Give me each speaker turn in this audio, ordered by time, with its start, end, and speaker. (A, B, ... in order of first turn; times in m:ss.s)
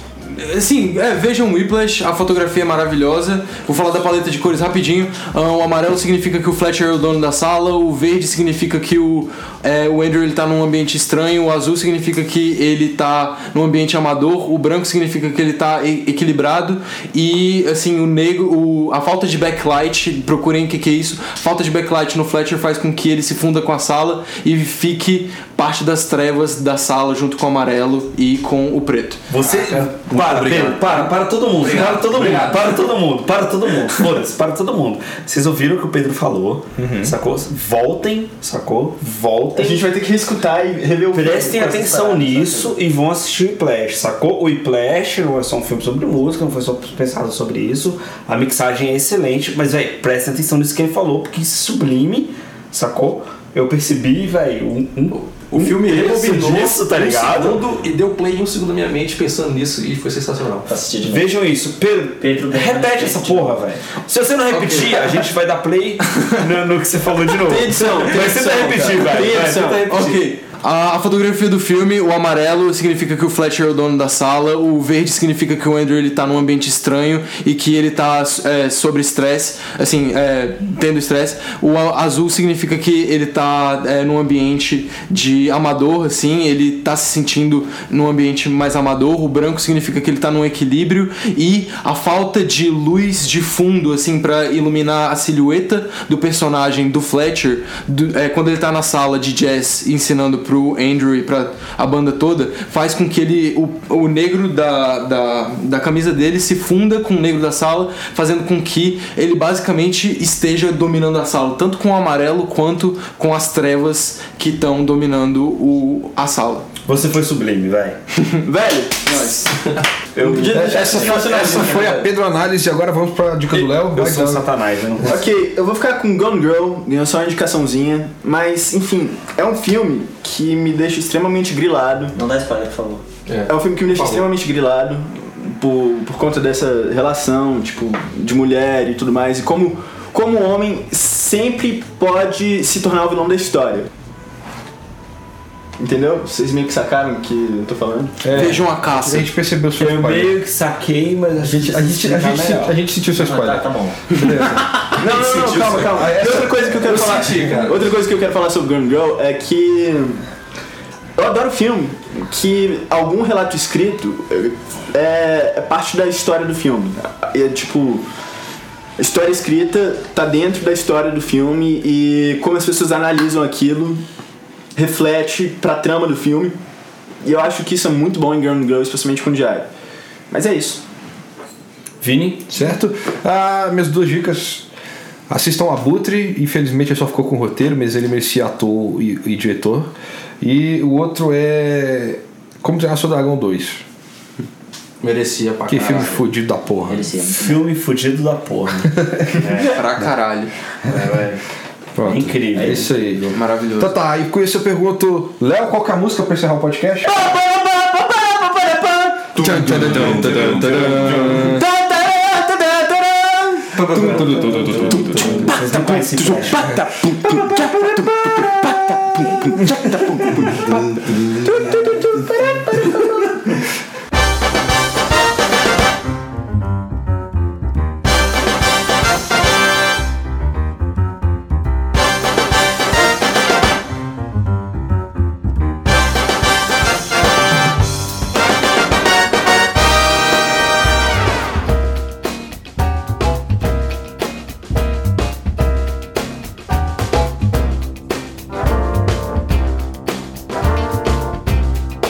0:00.2-0:29.3 A
0:29.3-0:39.9 B
0:29.4-0:29.9 C
0:30.1-0:31.1 A
0:31.5-0:32.8 C
0:36.8-0:37.2 D
0:39.5-0:42.8 E
0:41.1-0:57.7 B
0:55.1-1:00.7 C
1:00.7-1:01.4 F
1:01.1-1:09.9 B
1:02.2-1:03.6 F
1:04.5-1:05.2 A
1:07.4-1:10.1 E
1:09.0-1:56.7 A
1:56.9-1:58.0 B
1:58.4-1:59.4 E
1:59.1-1:59.6 A
2:00.2-2:01.1 B
2:00.2-2:02.1 E
2:00.5-2:04.5 D
2:03.5-2:05.3 B
2:05.0-2:12.1 E
2:12.1-2:13.0 F
2:13.3-2:14.2 C
2:13.5-2:23.9 E
2:25.8-2:28.2 E
2:28.2-2:30.4 D
2:28.3-2:29.3 A
2:29.8-2:32.8 B
2:31.4-2:37.7 D
2:33.1-2:34.0 F
2:34.9-2:40.2 E
2:35.4-2:36.0 C
2:36.9-2:37.8 C
2:36.9-2:37.4 A
2:41.2-2:48.1 E
2:49.0-2:54.0 E
2:54.8-2:56.6 E
2:57.2-2:59.7 E
3:00.3-3:00.8 E
3:02.0-3:02.5 B
3:02.5-3:04.7 D
3:05.3-3:13.8 D
3:15.0-3:16.3 C
3:15.7-3:17.0 D
3:16.8-3:17.6 F
3:17.2-3:19.9 B
3:19.0-3:19.4 D
3:19.5-3:20.5 A
3:20.8-3:21.4 B
3:22.0-3:27.2 D
3:22.0-3:22.9 B
3:23.3-3:24.0 A
3:27.3-3:30.9 E
3:29.4-3:31.6 D
3:29.4-3:31.6 A
3:31.5-3:33.8 E
3:33.8-3:35.5 D
3:33.9-3:36.8 B
3:34.0-3:34.2 A
3:35.2-3:36.0 E
3:37.0-3:37.3 E
3:40.2-3:40.6 E